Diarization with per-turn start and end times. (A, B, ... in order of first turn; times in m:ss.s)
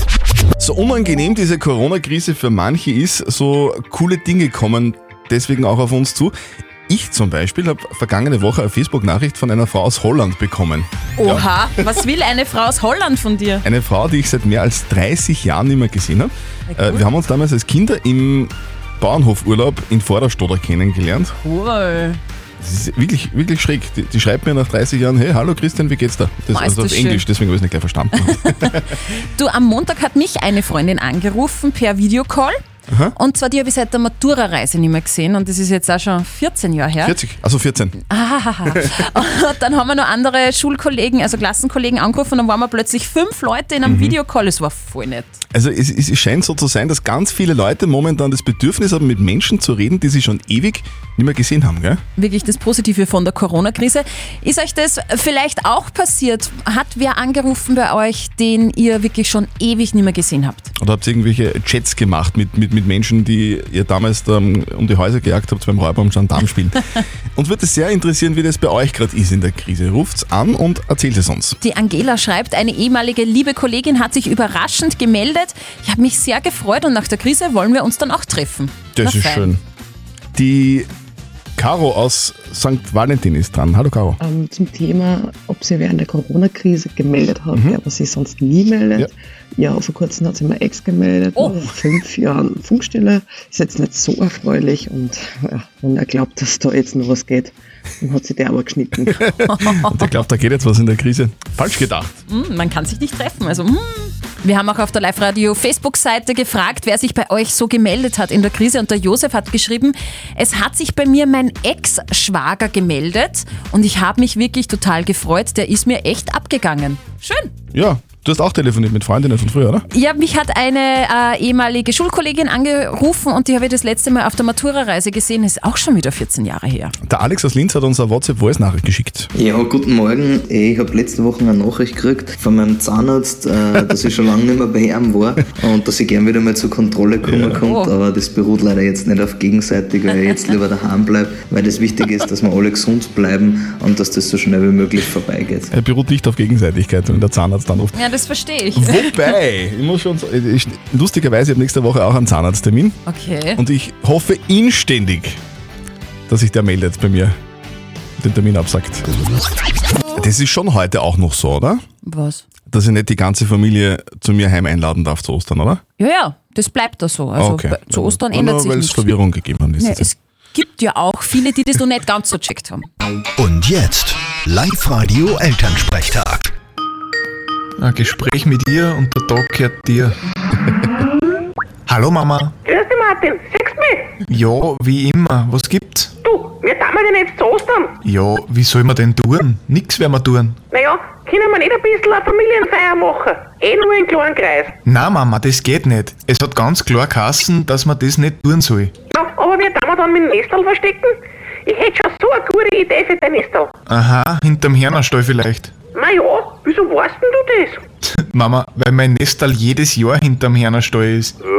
0:00.6-0:06.3 A
0:06.9-0:11.9 A
0:11.2-0:13.6 B
0:13.6-0:21.3 A
0:16.7-0:17.0 B
0:21.4-0:22.2 B
0:22.6-0:28.9 A
0:26.5-0:27.2 B
0:28.5-0:32.6 B
0:32.9-0:33.1 A
0:33.2-0:37.2 B
0:37.0-0:38.0 A
0:38.1-0:45.4 B
0:38.7-0:39.0 A
0:43.8-0:44.2 A
0:45.5-0:52.0 A
0:52.2-1:00.7 B
1:00.8-1:06.8 A
1:07.4-1:11.6 A
1:11.6-1:19.5 B
1:19.0-1:19.6 A
1:20.4-1:20.9 A
1:21.6-1:24.2 A
1:24.2-1:39.3 C
1:27.5-1:27.8 A
1:39.2-1:42.1 A
1:39.5-1:39.9 B
1:42.3-1:57.5 B
1:57.7-1:59.8 A
1:59.9-2:06.9 B
2:07.0-2:09.3 A
2:09.4-2:25.7 D
2:17.2-2:17.6 A
2:17.6-2:18.0 B
2:25.7-2:28.0 A
2:27.9-2:29.1 B
2:28.8-2:33.0 A
2:33.1-2:33.6 B
2:33.6-2:35.4 A
2:36.3-2:37.4 A
2:38.2-2:39.1 A
2:40.2-2:41.8 A
2:42.0-2:42.4 B
2:42.7-2:45.8 A
2:46.0-2:49.1 B
2:47.4-2:50.1 A
2:49.8-2:52.9 B
2:53.4-2:56.5 E
2:57.8-3:00.2 F
3:01.9-3:02.5 F
3:02.7-3:04.2 G
3:04.3-3:06.1 F
3:06.2-3:07.9 G
3:08.0-3:10.6 F
3:10.7-3:14.8 G
3:14.9-3:18.9 F
3:19.1-3:23.7 G
3:23.9-3:25.7 F
3:26.0-3:27.8 G
3:28.3-3:31.4 F